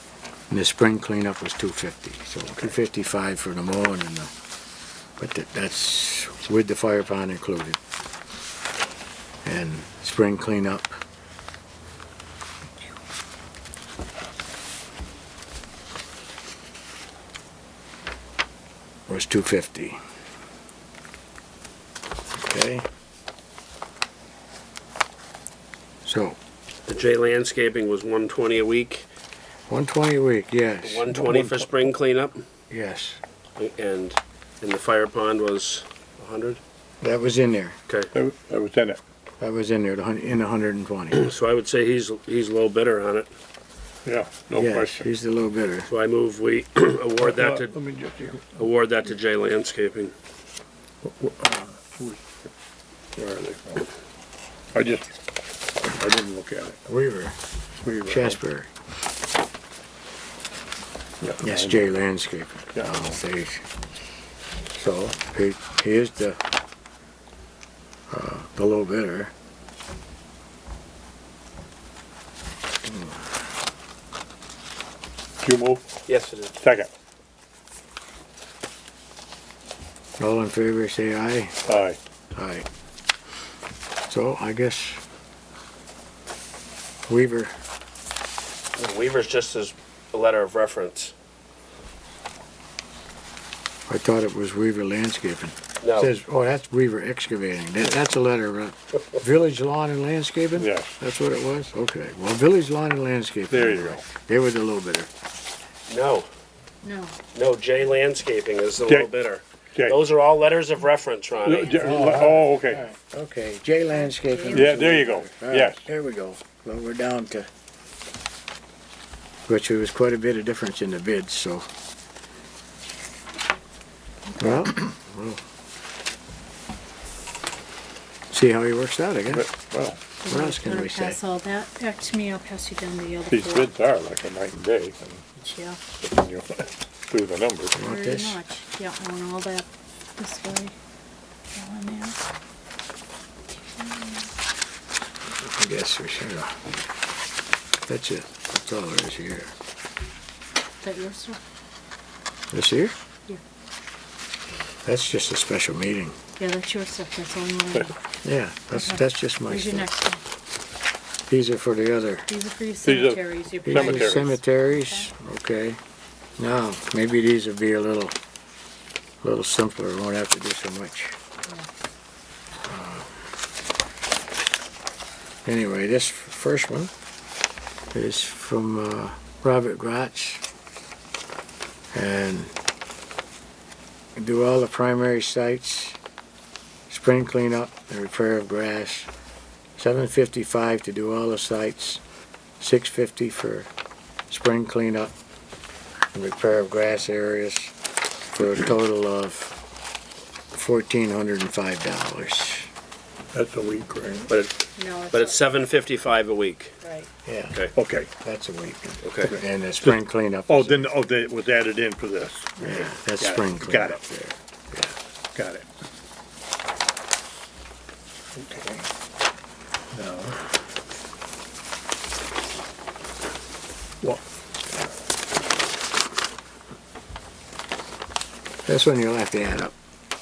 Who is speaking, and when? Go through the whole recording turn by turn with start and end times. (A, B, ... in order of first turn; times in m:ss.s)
0:00.5-0:04.3 A
0:05.2-0:07.8 A
0:09.4-0:11.0 A
0:19.1-0:20.0 A
0:22.3-0:22.9 A
0:26.0-0:26.4 A
0:26.9-0:29.1 B
0:29.7-0:31.6 A
0:30.8-0:32.4 B
0:32.7-0:33.2 A
0:33.6-0:36.6 B
0:37.0-0:37.8 A
0:38.1-0:39.0 C
0:39.4-0:41.2 A
0:41.1-0:43.3 B
0:44.0-0:45.0 C
0:44.6-0:45.9 A
0:45.9-0:47.7 B
0:47.2-0:48.5 C
0:48.5-0:50.1 B
0:51.0-0:52.2 C
0:53.2-0:53.9 C
0:54.7-0:55.1 C
0:55.8-0:56.8 C
0:56.8-0:57.4 A
0:57.8-0:58.4 C
0:58.0-0:58.7 A
1:01.2-1:02.0 C
1:01.4-1:03.6 A
1:02.7-1:03.1 C
1:04.7-1:06.4 A
1:08.1-1:09.3 A
1:12.8-1:13.2 A
1:15.4-1:15.9 C
1:16.1-1:16.5 B
1:16.6-1:16.9 C
1:20.2-1:21.7 A
1:21.7-1:22.0 C
1:22.3-1:22.7 A
1:24.1-1:25.0 A
1:27.1-1:27.5 A
1:28.8-1:31.1 B
1:33.9-1:45.1 A
1:35.8-1:36.1 B
1:40.6-1:40.9 C
1:43.5-1:44.0 C
1:45.9-1:46.3 B
1:46.8-1:47.2 D
1:47.3-1:52.0 B
1:48.8-1:49.1 C
1:51.4-1:52.9 C
1:51.8-1:57.5 A
1:53.9-1:54.8 D
1:54.5-1:55.9 C
1:59.5-2:01.7 A
2:04.3-2:04.7 D
2:04.4-2:05.4 A
2:08.3-2:09.5 A
2:09.3-2:10.0 C
2:10.2-2:13.7 D
2:10.3-2:11.2 A
2:13.3-2:15.3 C
2:15.4-2:15.8 D
2:16.0-2:17.8 C
2:17.8-2:18.4 A
2:17.8-2:20.8 D
2:21.5-2:22.2 D
2:23.8-2:24.3 D
2:25.4-2:26.6 A
2:27.8-2:29.5 A
2:30.8-2:31.4 D
2:32.5-2:32.9 A
2:34.8-2:36.2 A
2:36.4-2:38.0 D
2:38.2-2:39.9 A
2:38.7-2:40.2 D
2:41.3-2:42.3 A
2:42.3-2:45.0 D
2:42.8-2:44.3 C
2:43.6-2:45.8 A
2:46.4-2:48.2 A
2:49.2-2:51.2 A
2:52.6-2:53.1 A
2:55.4-2:56.9 A
2:57.9-3:00.4 A
3:01.9-3:02.5 A
3:04.2-3:06.0 A
3:06.9-3:09.1 A
3:09.8-3:12.0 A
3:12.6-3:13.7 A
3:14.3-3:15.1 A
3:16.1-3:17.7 A
3:18.3-3:19.6 A
3:20.5-3:22.7 A
3:23.3-3:24.3 C
3:24.3-3:26.8 B
3:24.8-3:25.6 D
3:26.8-3:27.1 D
3:27.2-3:27.6 A
3:27.8-3:28.1 C
3:28.2-3:30.9 A
3:29.0-3:29.4 B
3:29.2-3:34.0 C
3:32.6-3:34.9 A
3:35.3-3:35.7 C
3:38.4-3:38.9 C
3:39.9-3:40.4 C
3:48.7-3:49.7 A